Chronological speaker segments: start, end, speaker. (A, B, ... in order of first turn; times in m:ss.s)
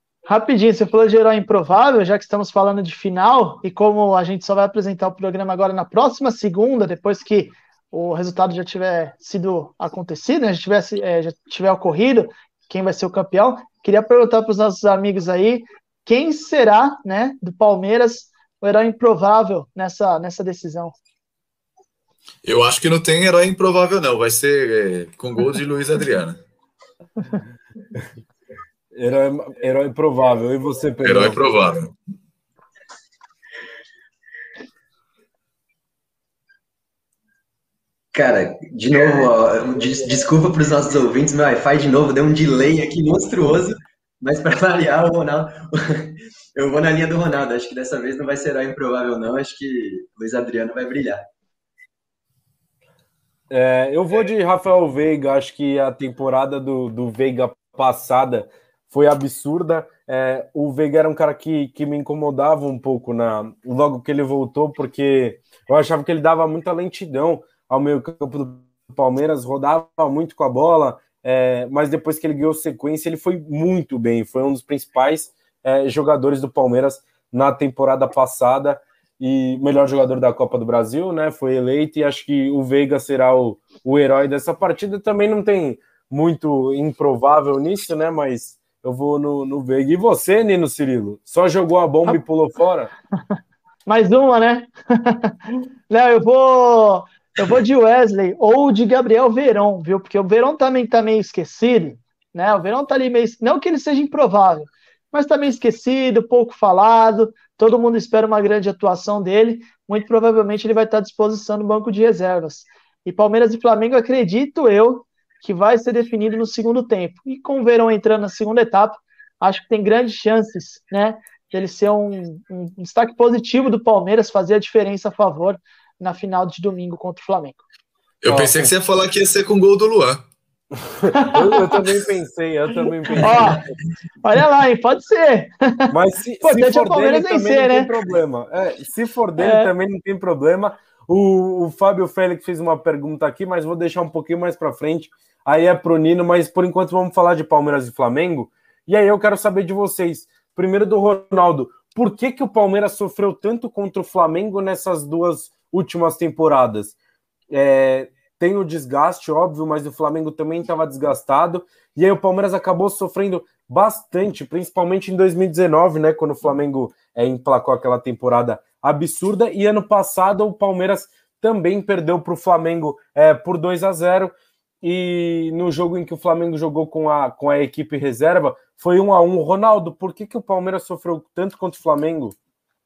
0:00.2-0:20.9 A
0:22.4-0:26.4 B
0:28.9-0:31.4 C
0:31.0-0:31.9 B
0:38.1-0:51.2 D
0:53.5-1:32.9 C
1:33.8-2:07.6 A
2:08.2-2:10.2 B
2:08.3-2:08.7 C
2:10.9-2:13.7 C
2:11.1-2:11.6 A
2:13.2-2:13.6 A
2:14.2-2:17.9 A
2:15.9-2:36.9 C
2:19.4-2:19.7 A
2:37.5-3:02.4 C